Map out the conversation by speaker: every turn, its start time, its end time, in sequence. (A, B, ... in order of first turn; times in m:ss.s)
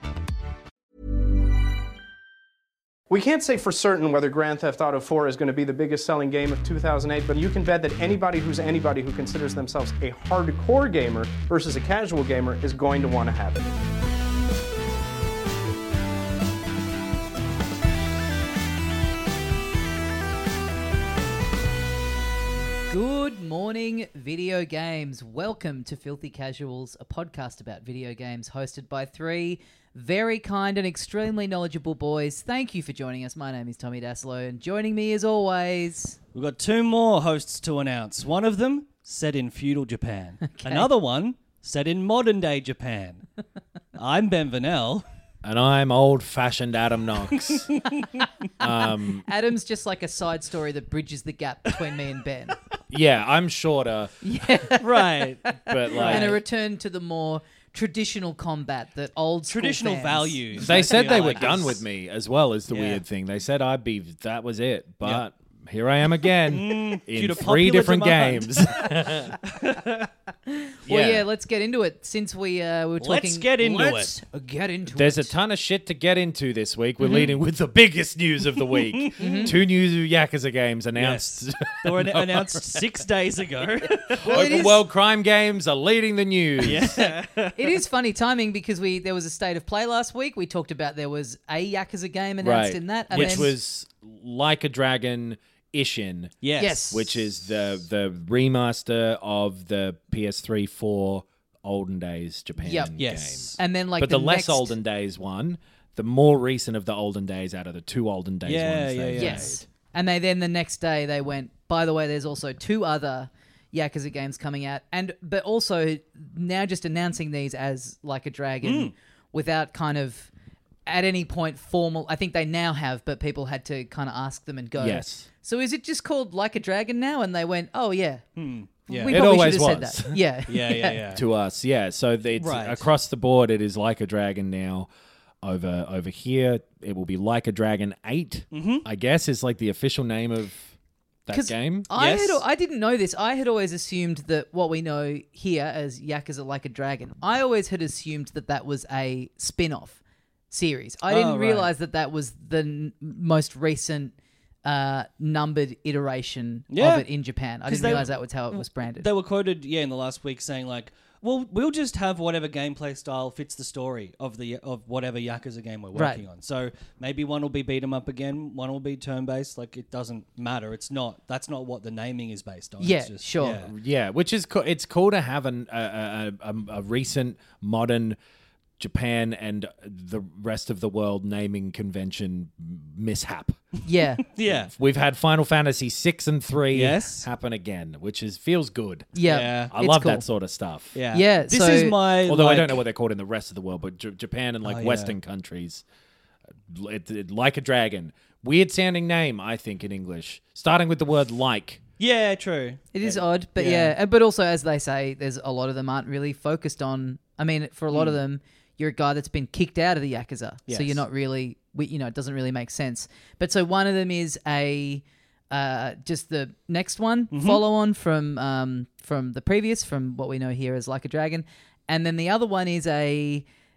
0:03.1-0:13.7 A
0:22.9-0:36.2 B
0:36.3-0:43.2 C
0:40.4-0:40.9 B
0:44.0-0:45.0 C
0:45.4-0:47.7 D
0:47.3-0:48.3 C
0:48.6-0:49.3 D
0:49.2-0:52.6 B
0:52.9-0:54.1 D
0:54.2-1:01.3 B
0:54.8-0:56.4 C
0:55.7-0:56.4 D
0:59.5-1:01.8 C
1:00.6-1:09.4 D
1:02.7-1:03.0 C
1:06.4-1:10.1 C
1:10.6-1:15.3 B
1:10.9-1:11.3 D
1:13.0-1:14.1 C
1:14.9-1:22.9 D
1:17.0-1:17.4 C
1:18.7-1:19.6 C
1:19.2-1:19.6 B
1:21.0-1:21.3 C
1:21.8-1:24.7 C
1:24.2-1:27.1 D
1:24.2-1:24.8 B
1:26.6-1:27.8 C
1:27.6-1:33.5 B
1:32.4-1:36.4 D
1:33.1-1:33.5 C
1:36.4-1:36.8 C
1:36.6-1:37.2 B
1:36.9-1:49.6 D
1:42.6-1:42.9 B
1:43.0-1:43.6 C
1:43.6-1:44.7 B
1:48.4-1:49.6 C
1:49.2-2:00.3 B
1:58.6-1:58.9 C
2:00.9-2:08.2 B
2:04.8-2:05.3 D
2:08.4-2:09.2 C
2:08.9-2:11.0 B
2:09.1-2:10.2 D
2:10.5-2:11.2 C
2:11.1-2:14.9 D
2:12.4-2:12.9 C
2:15.4-2:20.7 D
2:18.5-2:18.8 C
2:21.3-2:21.9 D
2:21.3-2:30.0 B
2:22.0-2:22.4 C
2:30.5-2:39.1 B
2:31.1-2:31.7 C
2:36.7-2:37.0 C
2:37.7-2:53.7 C
2:46.0-2:46.2 B
2:52.8-2:53.6 B
2:53.5-2:58.2 D
2:58.8-3:03.6 D
3:03.8-3:04.2 B
3:04.3-3:04.7 C
3:04.4-3:09.1 D
3:06.7-3:07.2 C
3:09.2-3:10.2 B
3:09.2-3:09.7 C
3:09.7-3:11.0 D
3:11.0-3:12.8 C
3:11.1-3:12.0 B
3:12.2-3:15.8 D
3:14.6-3:15.1 C
3:16.7-3:21.8 D
3:22.0-3:23.0 C
3:22.9-3:43.4 B
3:23.6-3:24.0 C
3:27.9-3:28.2 C
3:30.7-3:31.0 C
3:37.3-3:37.6 C